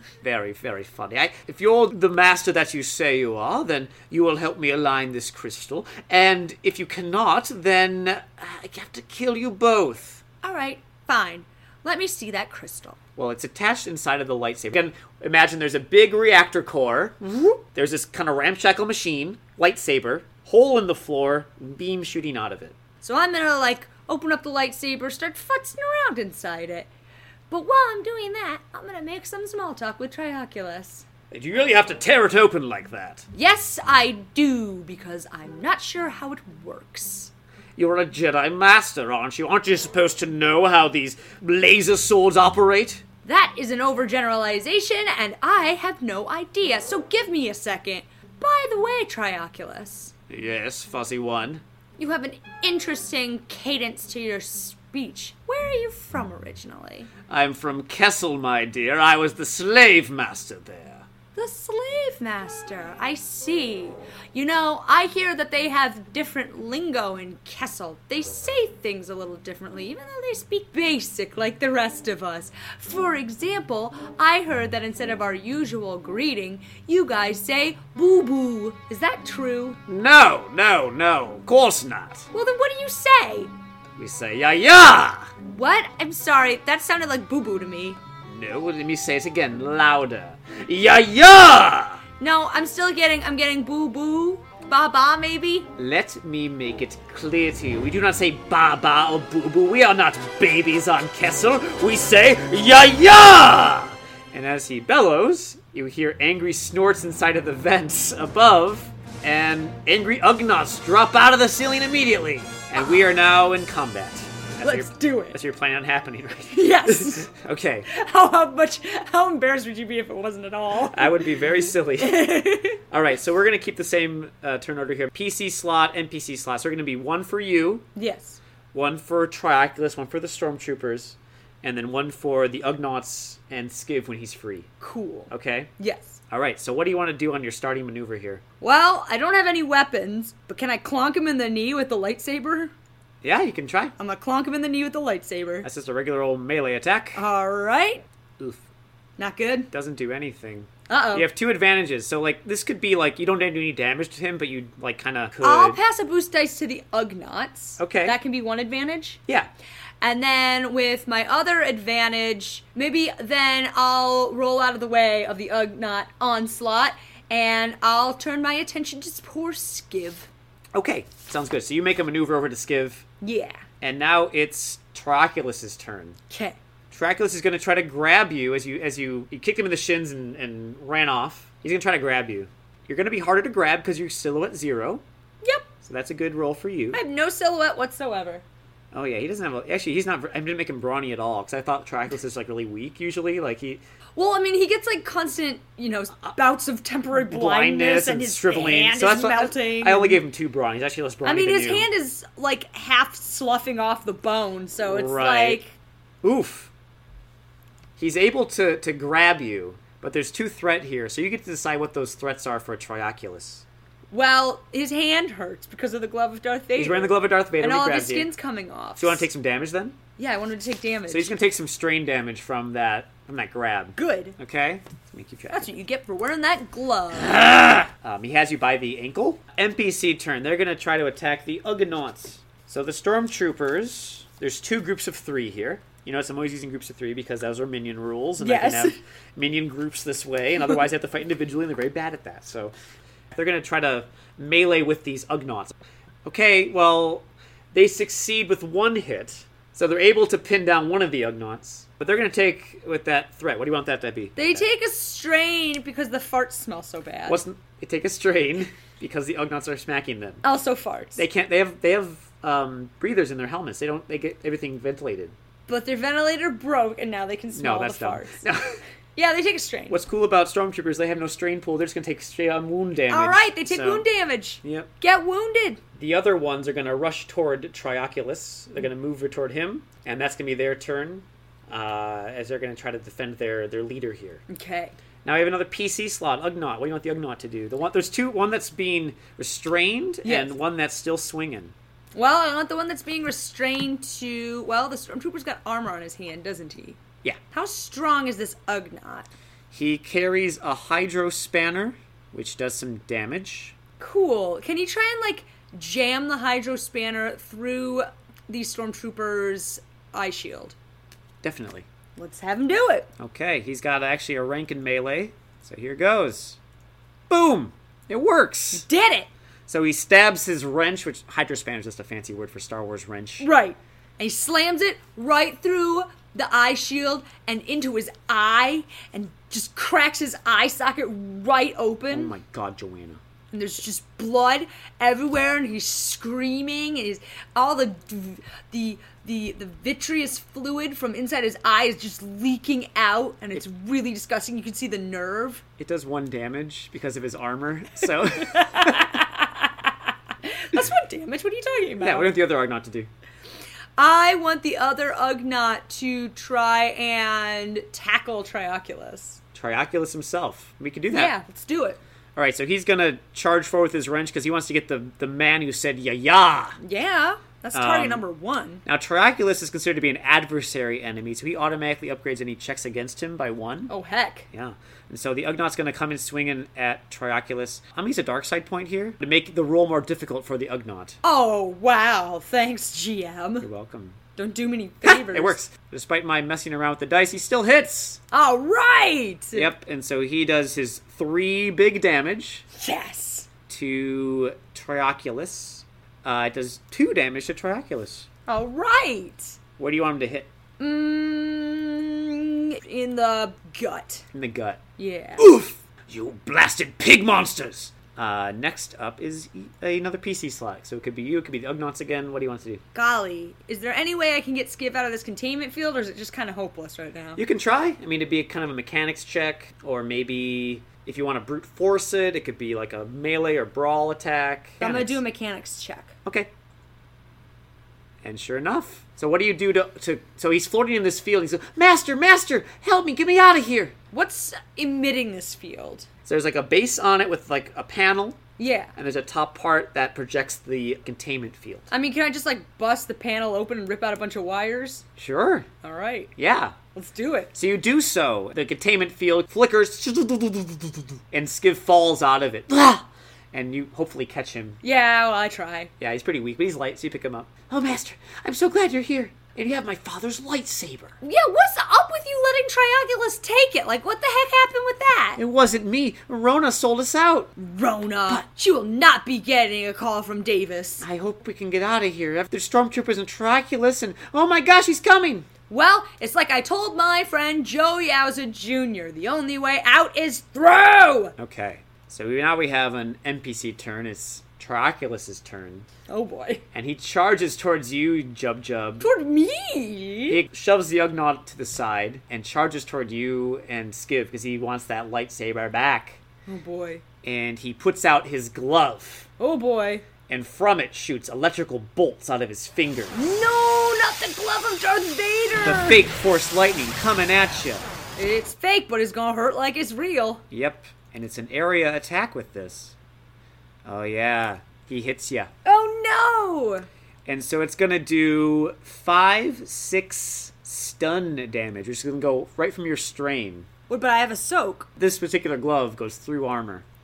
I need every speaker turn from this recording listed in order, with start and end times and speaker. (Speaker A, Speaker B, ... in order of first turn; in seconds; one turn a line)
Speaker A: 0.2-10.2
Speaker B: 10.4-13.0
Speaker A: 13.2-22.8
Speaker B: 23.0-26.9
Speaker B: 27.5-31.1
Speaker A: 31.3-33.3
Speaker B: 33.3-37.3
Speaker A: 37.8-43.0
Speaker B: 43.2-50.1
Speaker A: 50.3-51.6
Speaker B: 52.0-57.1
Speaker A: 57.3-61.1
Speaker B: 61.4-79.8
Speaker A: 79.9-82.3
Speaker B: 82.3-83.5
Speaker A: 84.0-85.3
Speaker B: 85.5-88.0
Speaker A: 88.3-92.0
Speaker B: 92.2-95.7
Speaker A: 95.8-117.9
Speaker B: 114.6-115.4
Speaker B: 116.5-117.3
Speaker B: 117.9-122.8
Speaker A: 120.9-127.9
Speaker B: 128.0-128.4
Speaker A: 128.7-134.7
Speaker B: 134.8-136.2
Speaker A: 135.3-135.7
Speaker A: 136.3-138.4
Speaker B: 138.6-142.7
Speaker A: 143.2-143.9
Speaker B: 144.0-145.7
Speaker A: 145.6-147.2
Speaker B: 147.2-148.0
Speaker A: 148.4-148.6
Speaker B: 149.2-149.7
Speaker A: 149.7-155.8
Speaker B: 150.9-151.3
Speaker B: 155.4-159.2
Speaker A: 157.8-158.2
Speaker B: 160.0-170.3
Speaker A: 170.7-173.1
Speaker B: 173.2-173.6
Speaker A: 173.8-176.2
Speaker B: 176.3-176.6
Speaker A: 176.9-185.0
Speaker A: 185.8-187.0
Speaker B: 186.9-188.4
Speaker A: 188.9-193.8
Speaker B: 194.2-200.2
Speaker A: 197.1-201.9
Speaker B: 201.2-205.7
Speaker A: 204.8-205.6
Speaker A: 206.2-206.7
Speaker A: 208.0-213.6
Speaker B: 214.1-219.3
Speaker A: 216.8-218.3
Speaker A: 219.0-220.0
Speaker B: 220.2-221.3
Speaker A: 221.1-225.7
Speaker B: 224.0-224.3
Speaker B: 225.5-227.3
Speaker A: 227.1-242.7
Speaker B: 238.4-239.0
Speaker A: 243.3-254.7
Speaker B: 254.4-257.4
Speaker A: 257.3-260.4
Speaker B: 260.4-261.2
Speaker A: 261.2-265.4
Speaker B: 265.7-268.4
Speaker A: 267.5-268.8
Speaker B: 269.1-270.0
Speaker A: 269.9-274.1
Speaker B: 273.1-275.8
Speaker A: 274.6-274.9
Speaker A: 276.0-284.4
Speaker B: 284.5-285.0
Speaker A: 285.2-291.7
Speaker B: 290.2-290.6
Speaker B: 292.1-297.0
Speaker B: 297.5-299.3
Speaker A: 299.7-303.8
Speaker B: 304.0-310.8
Speaker A: 311.4-311.9
Speaker B: 312.2-313.1
Speaker A: 313.2-316.6
Speaker A: 317.3-318.9
Speaker B: 318.7-319.3
Speaker A: 319.7-323.5
Speaker B: 323.4-332.4
Speaker A: 332.1-333.2
Speaker B: 333.5-345.6
Speaker A: 345.8-349.2
Speaker B: 348.4-349.9
Speaker B: 350.4-352.3
Speaker A: 352.0-353.1
Speaker B: 354.0-359.4
Speaker A: 359.5-361.3
Speaker B: 361.1-362.0
Speaker A: 362.4-366.8
Speaker B: 366.8-368.8
Speaker A: 367.7-368.2
Speaker A: 368.9-373.9
Speaker B: 373.9-374.5
Speaker A: 374.5-381.2
Speaker B: 381.2-383.7
Speaker A: 383.6-384.2
Speaker B: 384.4-385.6
Speaker A: 385.0-388.2
Speaker B: 388.3-389.7
Speaker A: 389.5-392.7
Speaker B: 392.8-393.5
Speaker A: 393.7-398.3
Speaker B: 398.5-399.6
Speaker A: 399.8-400.5
Speaker B: 400.8-404.3
Speaker A: 404.3-404.8
Speaker B: 405.0-405.5
Speaker A: 405.4-412.8
Speaker B: 412.9-417.4
Speaker A: 417.4-425.2
Speaker B: 424.8-426.1
Speaker A: 428.2-433.9
Speaker B: 434.1-436.1
Speaker A: 436.3-438.4
Speaker B: 438.6-438.9
Speaker A: 439.0-441.9
Speaker B: 441.9-445.1
Speaker A: 445.2-445.7
Speaker B: 445.8-446.3
Speaker A: 446.4-446.8
Speaker B: 446.9-447.5
Speaker A: 447.5-454.8
Speaker B: 454.8-455.9
Speaker A: 456.0-461.2
Speaker B: 461.2-465.4
Speaker A: 465.4-467.5
Speaker B: 467.6-471.1
Speaker A: 471.0-475.5
Speaker B: 475.7-481.4
Speaker A: 481.4-485.9
Speaker B: 486.1-486.6
Speaker A: 486.7-489.1
Speaker B: 489.0-490.4
Speaker A: 490.3-496.2
Speaker B: 496.5-497.0
Speaker A: 497.2-499.3
Speaker B: 499.4-500.1
Speaker A: 500.3-503.3
Speaker B: 503.1-506.0
Speaker A: 505.6-507.9
Speaker B: 508.2-510.4
Speaker A: 510.5-513.0
Speaker A: 513.9-515.5
Speaker B: 515.6-516.9
Speaker A: 517.3-523.7
Speaker B: 523.9-524.9
Speaker A: 525.0-526.9